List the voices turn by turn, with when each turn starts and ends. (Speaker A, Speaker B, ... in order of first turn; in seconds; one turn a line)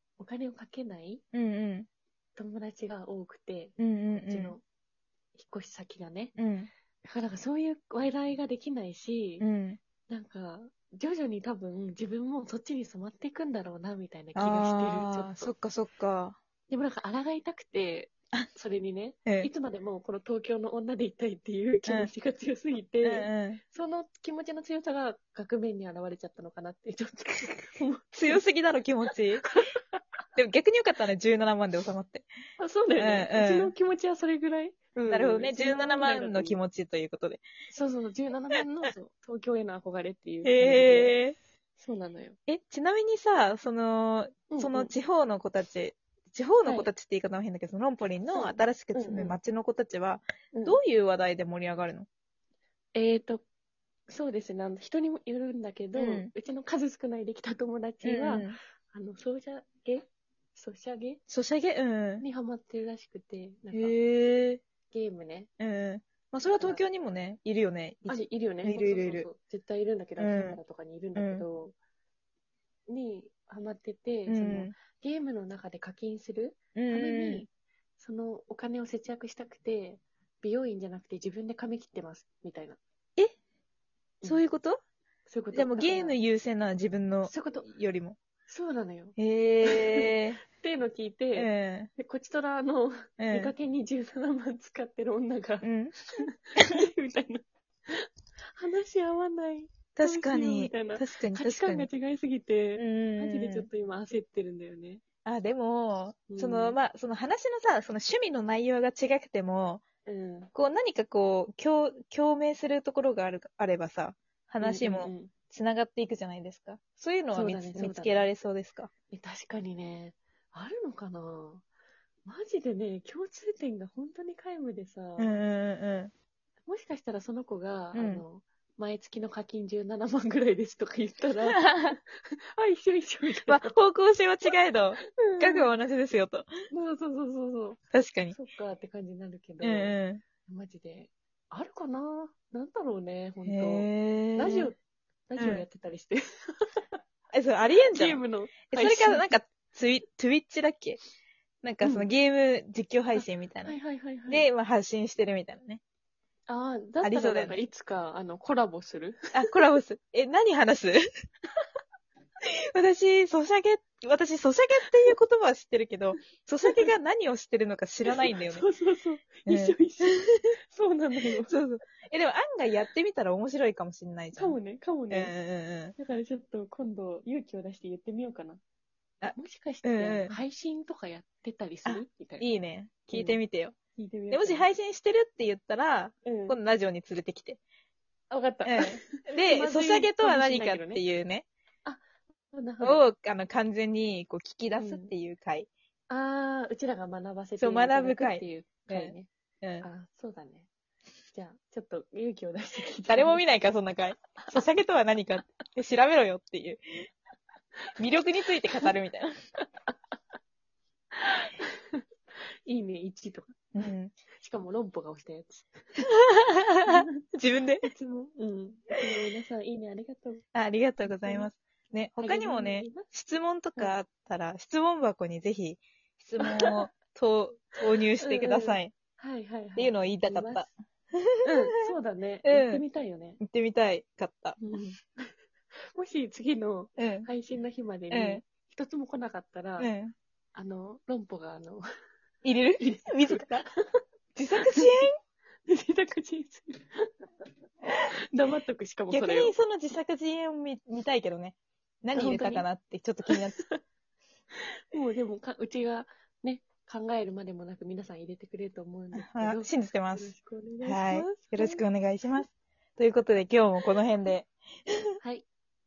Speaker A: 0.2-1.2
Speaker B: 1.3-1.9
Speaker A: 2.4-4.6
Speaker B: 3.8-4.6
Speaker A: 5.3-6.3
Speaker B: 6.4-6.7
Speaker A: 7.0-9.4
Speaker B: 9.4-9.8
Speaker A: 10.1-15.5
Speaker B: 14.3-16.4
Speaker A: 16.7-28.4
Speaker B: 21.9-22.1
Speaker B: 23.0-23.6
Speaker B: 28.1-29.4
Speaker A: 29.4-30.0
Speaker B: 30.4-32.3
Speaker A: 32.6-36.6
Speaker B: 33.0-33.7
Speaker B: 35.0-37.5
Speaker A: 37.7-41.2
Speaker B: 40.4-41.4
Speaker A: 41.8-42.4
Speaker B: 42.5-52.1
Speaker A: 44.5-44.9
Speaker A: 46.6-46.9
Speaker A: 48.3-49.4
Speaker A: 50.5-50.8
Speaker A: 52.9-53.4
Speaker A: 54.1-61.2
Speaker B: 56.0-56.3
Speaker B: 58.0-58.6
Speaker B: 61.3-62.2
Speaker A: 62.2-64.0
Speaker B: 63.7-64.6
Speaker A: 64.9-65.5
Speaker B: 65.6-69.3
Speaker A: 66.5-66.8
Speaker A: 68.1-71.7
Speaker B: 70.2-70.6
Speaker B: 71.2-71.5
Speaker A: 72.9-82.8
Speaker B: 74.3-74.7
Speaker B: 76.7-77.5
Speaker B: 84.2-84.8
Speaker A: 85.3-86.2
Speaker B: 85.5-88.2
Speaker A: 87.2-87.7
Speaker A: 88.5-95.7
Speaker B: 89.2-90.4
Speaker B: 91.3-91.9
Speaker B: 93.2-93.5
Speaker B: 95.6-96.8
Speaker A: 96.2-105.0
Speaker B: 100.0-101.9
Speaker B: 102.8-103.7
Speaker B: 105.2-109.8
Speaker A: 106.3-106.8
Speaker A: 110.0-110.5
Speaker B: 110.5-118.9
Speaker A: 114.6-115.3
Speaker A: 117.3-118.3
Speaker A: 119.1-121.6
Speaker A: 122.2-125.3
Speaker B: 125.2-126.1
Speaker A: 126.7-132.0
Speaker B: 127.9-128.2
Speaker B: 131.5-132.0
Speaker A: 132.6-133.8
Speaker B: 133.4-136.5
Speaker A: 135.2-135.7
Speaker A: 136.7-137.8
Speaker B: 137.9-138.3
Speaker A: 138.3-147.0
Speaker B: 139.6-140.2
Speaker B: 143.4-144.7
Speaker B: 145.4-145.7
Speaker B: 147.3-151.0
Speaker A: 147.8-149.3
Speaker B: 151.6-155.8
Speaker A: 151.8-152.1
Speaker A: 153.1-154.5
Speaker A: 156.5-159.5
Speaker B: 157.0-157.6
Speaker B: 159.3-161.0
Speaker B: 162.5-168.7
Speaker A: 166.6-166.9
Speaker A: 168.1-171.6
Speaker B: 169.5-170.3
Speaker B: 171.3-174.6
Speaker A: 174.3-175.3
Speaker B: 175.1-175.9
Speaker A: 176.0-178.6
Speaker B: 179.2-180.4
Speaker A: 179.3-182.5
Speaker B: 181.8-183.8
Speaker A: 183.1-183.4
Speaker A: 183.9-184.7
Speaker B: 184.3-187.6
Speaker A: 186.2-186.6
Speaker A: 188.3-191.0
Speaker B: 188.6-191.4
Speaker A: 191.8-193.0
Speaker B: 192.8-195.7
Speaker A: 194.8-195.1
Speaker A: 196.1-199.3
Speaker B: 197.6-199.9
Speaker A: 199.8-200.7
Speaker A: 201.3-203.4
Speaker B: 203.1-207.1
Speaker B: 208.0-209.3
Speaker A: 209.9-210.1
Speaker A: 211.1-212.0
Speaker A: 212.7-216.0
Speaker B: 213.7-214.1
Speaker B: 216.0-217.9
Speaker A: 217.8-220.4
Speaker B: 220.5-228.9
Speaker A: 221.0-221.5
Speaker A: 222.2-223.1
Speaker A: 226.4-226.9
Speaker A: 228.2-230.7
Speaker B: 229.8-231.9
Speaker A: 231.4-233.4
Speaker B: 232.4-232.8
Speaker B: 233.4-234.6
Speaker A: 234.6-235.3
Speaker A: 235.9-239.9
Speaker B: 237.0-237.3
Speaker B: 238.1-238.4
Speaker B: 239.8-240.1
Speaker A: 240.5-241.8
Speaker B: 242.4-243.6
Speaker A: 242.8-244.0
Speaker B: 244.3-245.1
Speaker A: 244.6-245.0
Speaker A: 245.7-247.2
Speaker A: 247.9-249.5
Speaker B: 249.1-253.6
Speaker A: 252.1-252.7
Speaker A: 253.3-253.8
Speaker A: 254.9-262.4
Speaker B: 259.1-265.2
Speaker A: 265.2-265.5